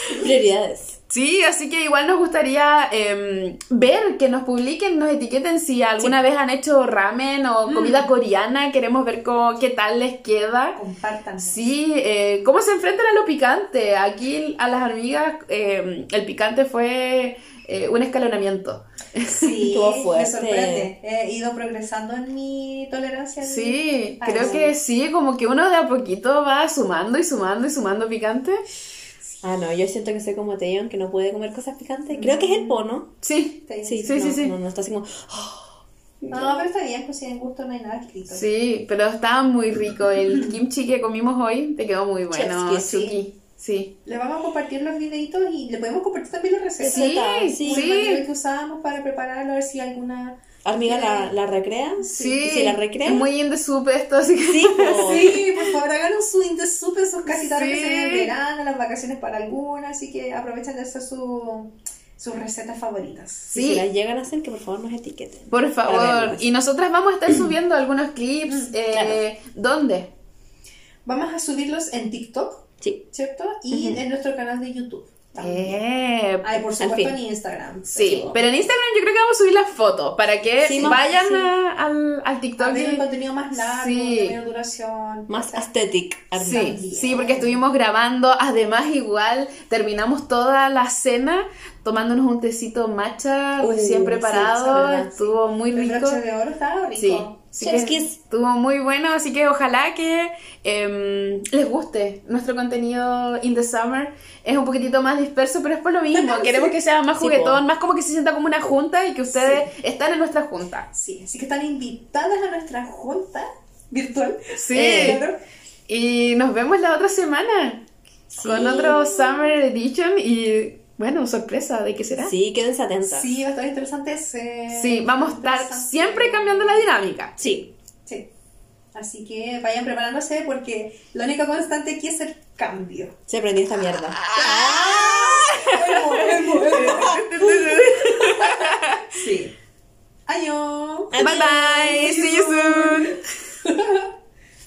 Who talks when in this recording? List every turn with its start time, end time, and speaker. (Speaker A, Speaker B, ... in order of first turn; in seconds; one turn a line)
Speaker A: 0.1-0.3
Speaker B: 0.2-1.0
Speaker C: 1.1-10.8
Speaker A: 7.7-8.1
Speaker A: 10.8-11.7
Speaker C: 11.4-19.4
Speaker A: 19.2-24.7
Speaker B: 19.6-20.9
Speaker C: 23.4-28.6
Speaker B: 29.4-33.1
Speaker A: 32.1-32.8
Speaker C: 33.2-34.5
Speaker A: 33.7-34.3
Speaker B: 33.9-36.6
Speaker A: 36.3-38.5
Speaker C: 38.3-43.9
Speaker B: 42.3-43.2
Speaker A: 44.0-51.3
Speaker B: 46.8-47.9
Speaker C: 46.9-48.2
Speaker B: 50.6-53.3
Speaker A: 52.0-52.5
Speaker C: 52.1-55.7
Speaker B: 54.4-55.4
Speaker A: 55.0-63.5
Speaker C: 57.3-58.3
Speaker C: 63.5-63.9
Speaker B: 63.5-66.5
Speaker C: 65.5-70.1
Speaker A: 68.5-68.7
Speaker B: 68.9-69.2
Speaker A: 71.0-75.8
Speaker C: 73.7-74.0
Speaker C: 75.4-76.6
Speaker A: 76.4-78.4
Speaker B: 76.8-77.2
Speaker C: 77.9-84.4
Speaker B: 80.6-81.5
Speaker A: 82.6-85.7
Speaker B: 85.3-86.8
Speaker C: 86.4-96.2
Speaker A: 86.4-87.6
Speaker B: 93.6-95.3
Speaker A: 95.7-97.4
Speaker C: 97.0-110.9
Speaker B: 97.6-98.2
Speaker A: 106.2-106.7
Speaker B: 107.2-107.6
Speaker A: 109.3-109.7
Speaker A: 110.9-115.4
Speaker C: 114.6-115.2
Speaker B: 114.7-115.2
Speaker C: 115.9-117.8
Speaker B: 118.3-119.1
Speaker C: 118.4-122.3
Speaker B: 122.1-123.3
Speaker A: 123.0-126.8
Speaker C: 124.7-127.4
Speaker B: 127.4-127.7
Speaker A: 128.9-133.2
Speaker B: 133.3-135.6
Speaker C: 134.1-139.1
Speaker A: 134.4-137.8
Speaker B: 136.1-137.2
Speaker A: 139.1-139.5
Speaker A: 140.3-143.1
Speaker B: 141.1-142.2
Speaker C: 141.2-143.2
Speaker A: 143.7-144.1